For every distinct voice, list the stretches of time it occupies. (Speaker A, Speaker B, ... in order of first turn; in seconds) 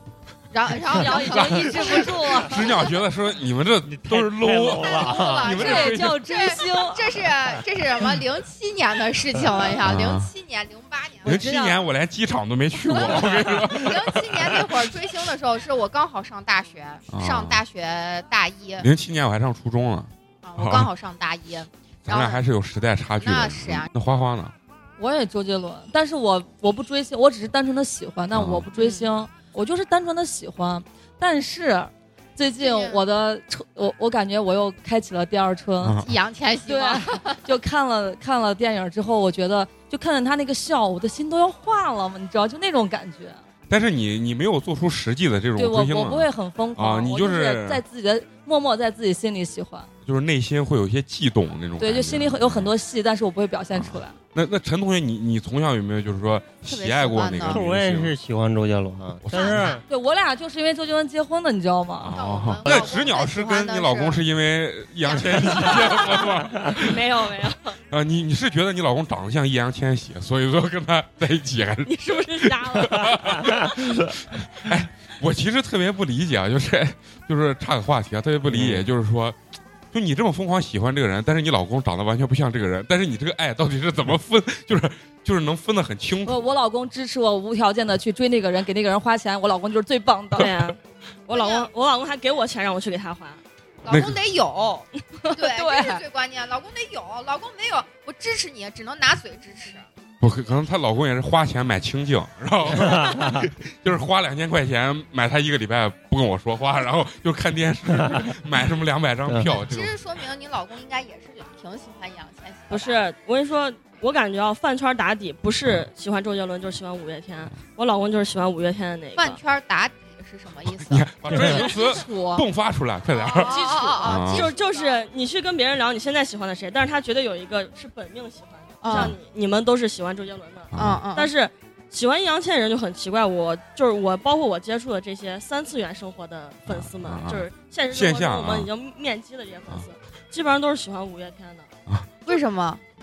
Speaker A: 0.5-3.0, 4.8-11.5, 12.8-18.9, 20.4-22.4, 23.2-23.9, 28.7-29.1, 32.6-33.0, 36.0-37.4, 56.6-57.6, 59.3-59.8, 62.0-64.2, 65.0-66.3, 91.3-91.7, 93.8-99.8, 109.6-113.0, 119.2-122.1, 123.1-125.0, 128.8-129.2, 130.7-131.3, 142.2-142.8
Speaker B: 0.9-2.6, 5.4-7.1, 11.2-11.8, 25.0-36.0, 36.7-43.4, 45.5-49.9, 51.8-54.1, 59.9-62.1, 86.2-90.5, 95.4-96.0, 121.3-122.4, 123.7-124.0
Speaker C: 0.9-6.2, 9.8-10.3, 11.2-15.1, 17.1-17.6, 18.8-20.9, 22.1-24.5, 28.3-28.7, 35.8-36.1, 43.7-47.8, 50.0-52.7, 53.8-58.1, 59.2-59.7, 62.0-67.2, 67.9-79.3, 79.9-86.4, 93.9-94.2, 100.2-109.9, 120.6-124.5, 128.9-129.2, 130.7-131.0, 136.7-138.7
Speaker D: 3.9-5.5, 57.4-59.8, 62.6-63.0, 78.5-78.9, 102.9-103.5, 109.3-109.5
Speaker E: 66.7-67.8, 71.8-73.5, 90.3-93.4, 112.7-119.4, 123.4-141.7